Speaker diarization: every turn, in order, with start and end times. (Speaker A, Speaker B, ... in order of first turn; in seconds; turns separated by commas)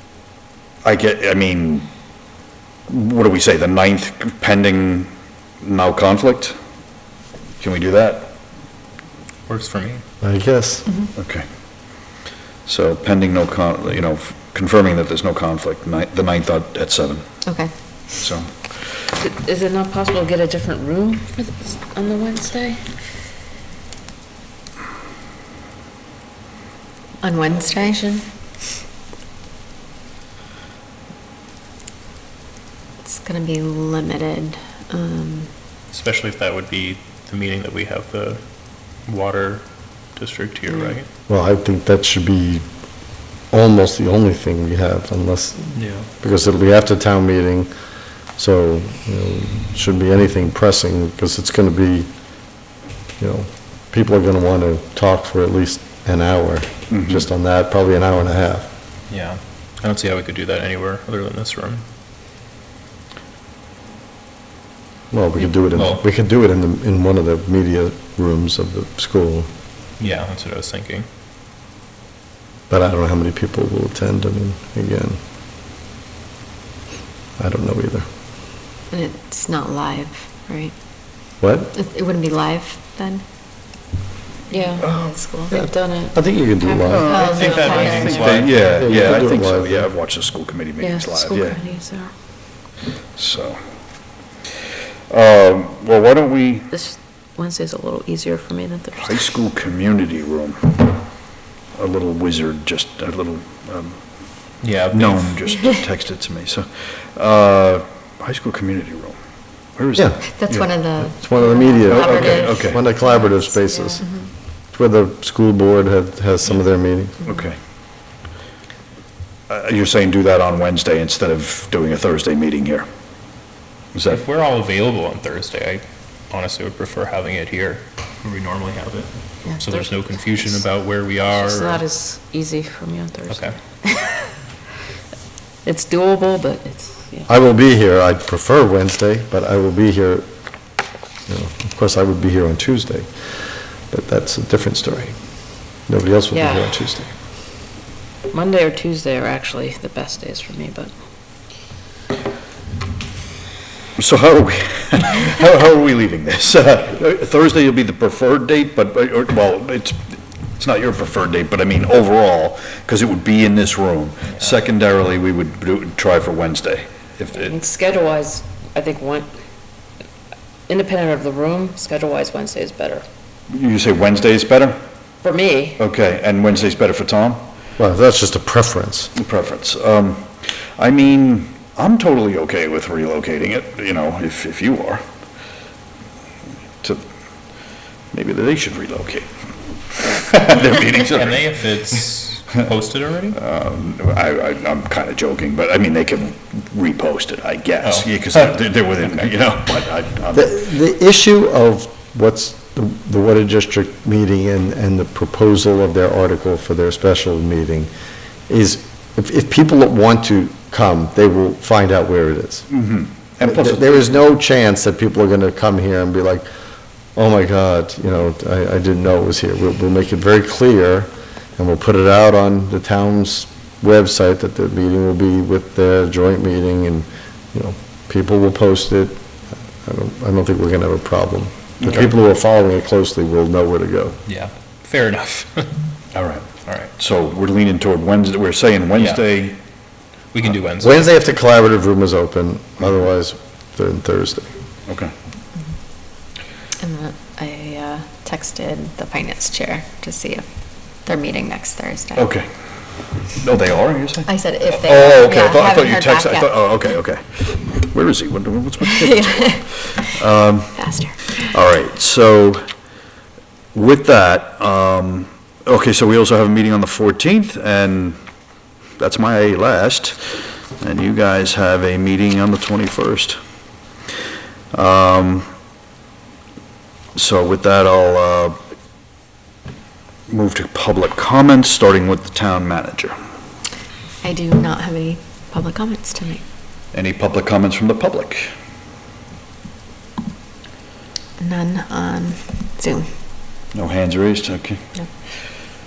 Speaker A: 0.8-1.9, Speaker A: 2.9-5.1, Speaker A: 5.6-6.6, Speaker A: 7.6-8.3, Speaker B: 9.5-10.0, Speaker C: 10.2-10.8, Speaker A: 11.2-11.4, Speaker A: 12.7-17.3, Speaker D: 17.4-17.7, Speaker A: 18.2-18.6, Speaker E: 19.2-22.9, Speaker D: 27.2-28.2, Speaker D: 33.0-35.5, Speaker B: 35.9-41.1, Speaker D: 40.7-41.0, Speaker C: 41.3-42.6, Speaker C: 43.5-47.7, Speaker B: 45.8-46.1, Speaker C: 48.4-52.1, Speaker C: 53.2-58.7, Speaker A: 56.9-57.3, Speaker B: 59.1-61.8, Speaker C: 65.1-69.5, Speaker B: 65.7-66.0, Speaker B: 70.0-71.1, Speaker C: 72.7-75.2, Speaker C: 77.4-78.1, Speaker D: 78.9-80.7, Speaker C: 81.4-81.7, Speaker D: 81.7-83.2, Speaker D: 84.5-85.5, Speaker E: 84.5-84.9, Speaker A: 84.8-85.1, Speaker E: 85.5-88.8, Speaker C: 85.5-87.2, Speaker A: 86.9-91.6, Speaker D: 87.1-88.4, Speaker B: 87.2-88.7, Speaker C: 88.5-89.9, Speaker E: 90.8-92.1, Speaker A: 93.2-93.6, Speaker A: 95.1-96.7, Speaker E: 96.7-99.3, Speaker A: 99.0-101.0, Speaker A: 101.8-104.0, Speaker B: 104.6-105.4, Speaker A: 104.9-109.2, Speaker A: 109.8-110.7, Speaker D: 110.3-113.3, Speaker C: 111.0-117.2, Speaker A: 111.9-112.8, Speaker A: 117.2-117.6, Speaker A: 119.5-122.9, Speaker A: 123.9-124.2, Speaker B: 124.1-131.8, Speaker E: 129.4-130.6, Speaker E: 131.3-134.3, Speaker B: 133.3-133.6, Speaker E: 135.6-137.3, Speaker C: 137.3-140.2, Speaker C: 141.3-143.1, Speaker C: 143.9-147.1, Speaker E: 146.3-146.8, Speaker E: 148.3-150.9, Speaker A: 154.0-167.6, Speaker E: 167.3-169.3, Speaker E: 170.7-173.0, Speaker A: 173.5-174.8, Speaker E: 175.2-175.8, Speaker A: 175.8-177.4, Speaker C: 177.8-179.1, Speaker A: 179.2-185.0, Speaker A: 188.1-191.5, Speaker B: 191.1-193.4, Speaker A: 193.3-200.7, Speaker B: 197.8-198.4, Speaker C: 200.3-207.9, Speaker C: 208.5-212.7, Speaker A: 212.7-214.3, Speaker C: 213.4-216.5, Speaker C: 217.2-229.2, Speaker C: 229.8-234.2, Speaker A: 231.8-232.1, Speaker B: 234.3-235.8, Speaker A: 236.1-239.6, Speaker B: 236.7-236.9, Speaker B: 238.9-239.2, Speaker B: 240.3-241.1, Speaker C: 240.8-244.5, Speaker A: 244.9-245.1, Speaker D: 246.8-250.5, Speaker D: 251.0-252.3, Speaker A: 252.2-252.5, Speaker A: 253.2-262.6, Speaker D: 254.3-256.6, Speaker D: 258.8-260.1, Speaker D: 260.8-261.5, Speaker A: 263.7-268.2, Speaker A: 269.0-273.4, Speaker A: 274.7-275.5, Speaker A: 277.1-278.6, Speaker A: 280.3-283.1, Speaker D: 284.2-286.4, Speaker A: 286.9-288.5, Speaker D: 291.4-293.1, Speaker A: 293.7-294.8